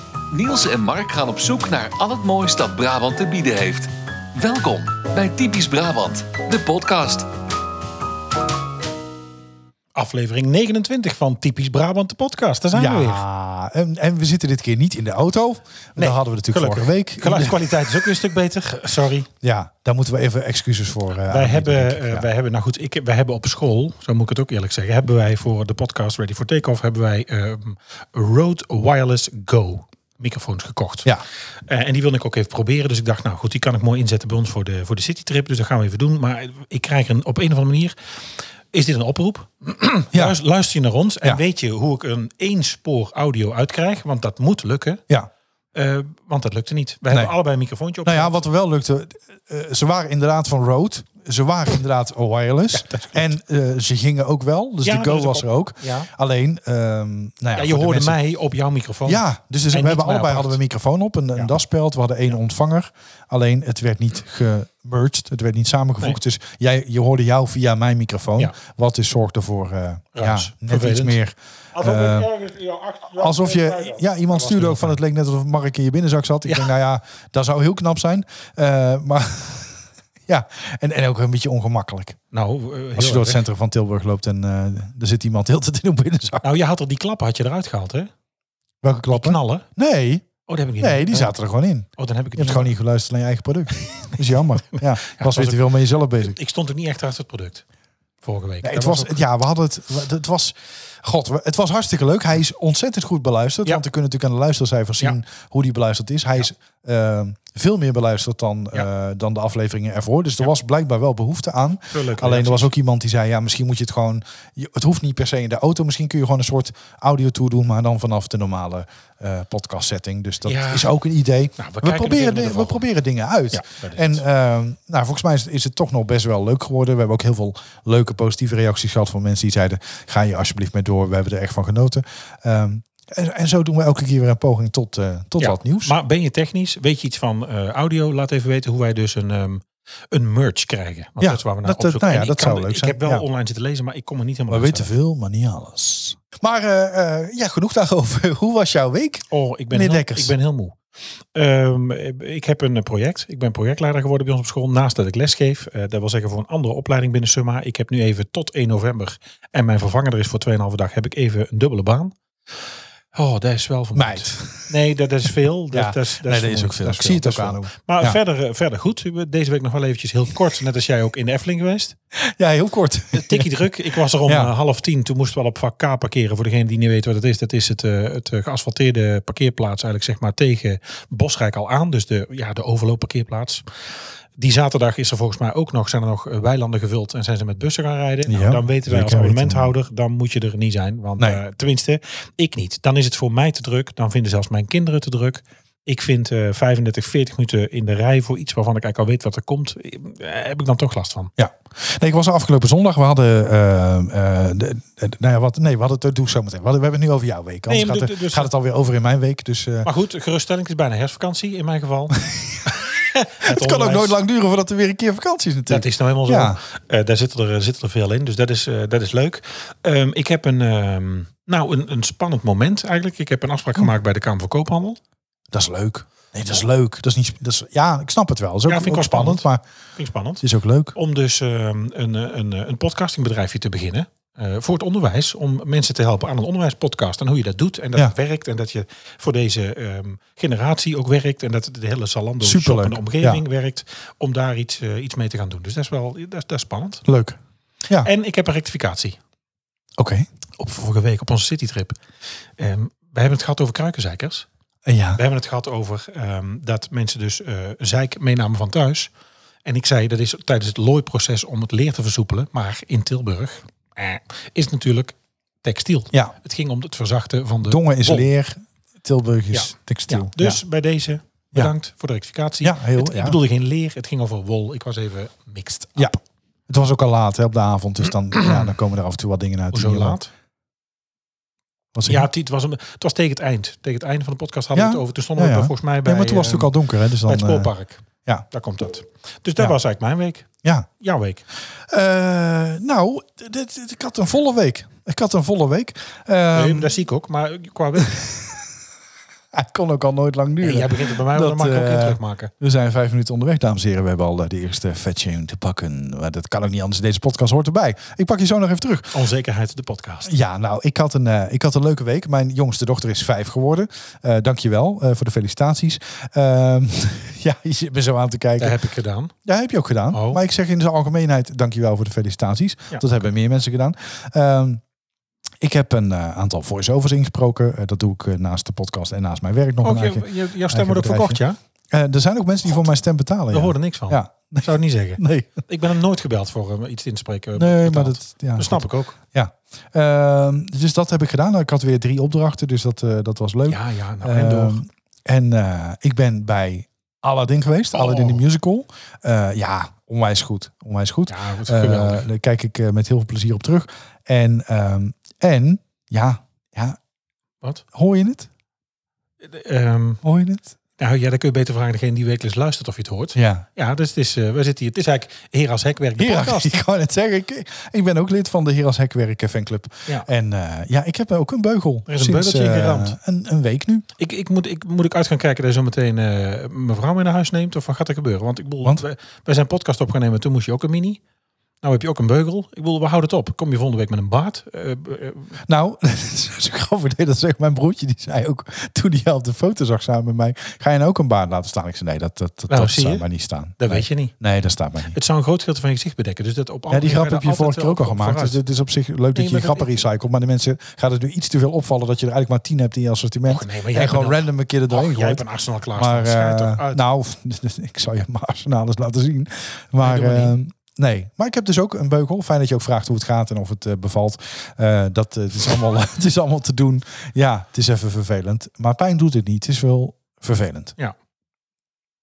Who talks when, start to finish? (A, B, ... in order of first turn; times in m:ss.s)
0:00.3-0:07.3 A
0:09.9-0:13.2 B
0:12.7-0:17.7 C
0:16.0-0:19.3 B
0:19.4-0:22.3 C
0:21.3-0:31.1 B
0:31.7-0:37.9 B
0:38.7-0:45.0 B
0:45.7-0:48.4 B
0:48.0-0:58.2 C
0:52.7-0:53.2 B
0:54.8-0:56.1 B
0:57.6-1:00.6 B
0:59.0-1:12.3 C
1:10.1-1:11.2 B
1:11.7-1:15.0 B
1:13.1-1:22.2 C
1:16.4-1:16.7 B
1:22.3-1:23.4 B
1:23.0-1:26.4 C
1:26.4-1:28.1 B
1:28.8-1:30.3 C
1:29.1-1:29.6 B
1:30.4-1:31.3 B
1:30.8-1:36.4 C
1:32.0-1:32.7 B
1:33.8-1:34.1 B
1:34.7-1:37.6 B
1:38.2-1:39.2 B
1:38.6-2:15.9 C
1:51.9-1:52.7 B
2:00.4-2:00.9 B
2:01.6-2:02.8 B
2:03.5-2:04.2 B
2:15.4-2:24.9 B
2:21.2-2:23.2 C
2:24.5-2:30.3 C
2:29.3-2:30.8 B
2:31.3-2:42.1 B
2:43.1-2:52.0 B
2:43.9-2:44.7 C
2:45.7-2:48.2 C
2:52.2-2:53.5 C
2:53.1-3:03.6 B
2:54.2-2:54.5 C
3:04.4-3:21.3 B
3:08.3-3:09.7 C
3:21.4-3:29.9 C
3:27.7-3:28.5 B
3:29.8-3:34.2 B
3:32.2-3:32.7 C
3:33.4-3:36.6 C
3:35.7-3:45.0 B
3:45.5-3:49.6 C
3:48.7-4:07.0 B
3:50.4-3:50.9 C
4:02.4-4:03.4 C
4:07.0-4:07.4 C
4:08.0-4:09.2 B
4:10.0-4:10.3 C
4:10.6-4:12.0 B
4:12.6-4:14.5 B
4:14.8-4:15.2 C
4:15.2-4:19.1 B
4:19.6-4:28.3 B
4:27.6-4:30.6 C
4:29.5-4:36.2 B
4:32.6-4:33.4 C
4:36.7-4:40.2 C
4:39.7-4:40.3 B
4:41.9-4:42.3 C
4:42.0-4:46.7 B
4:44.7-4:47.7 C
4:47.2-4:50.5 B
4:51.0-4:51.4 B
4:51.9-4:57.0 C
4:56.5-4:58.2 B
4:58.1-4:58.5 C
4:59.5-5:09.1 C
5:00.6-5:02.5 B
5:09.1-5:10.3 B
5:10.2-5:18.8 C
5:18.6-5:19.3 B
5:19.4-5:24.8 C
5:20.1-5:20.4 B
5:25.6-5:35.6 C
5:29.8-5:31.6 B
5:33.5-5:39.2 B
5:37.6-5:57.0 C
5:43.7-5:44.8 B
5:47.9-5:48.4 B
5:51.3-5:52.3 B
5:57.9-5:58.5 C
5:59.4-6:00.2 B
6:00.2-6:00.7 C
6:01.0-6:06.8 B
6:03.4-6:03.6 C
6:06.2-6:14.0 C
6:12.1-6:13.1 B
6:14.2-6:21.2 B
6:21.8-6:25.6 B
6:25.6-6:35.2 C
6:32.7-6:33.2 B
6:33.8-6:34.3 B
6:35.1-6:38.6 B
6:36.9-6:45.4 C
6:39.3-6:40.0 B
6:43.4-6:47.0 B
6:46.0-7:00.9 C
6:50.0-6:50.6 B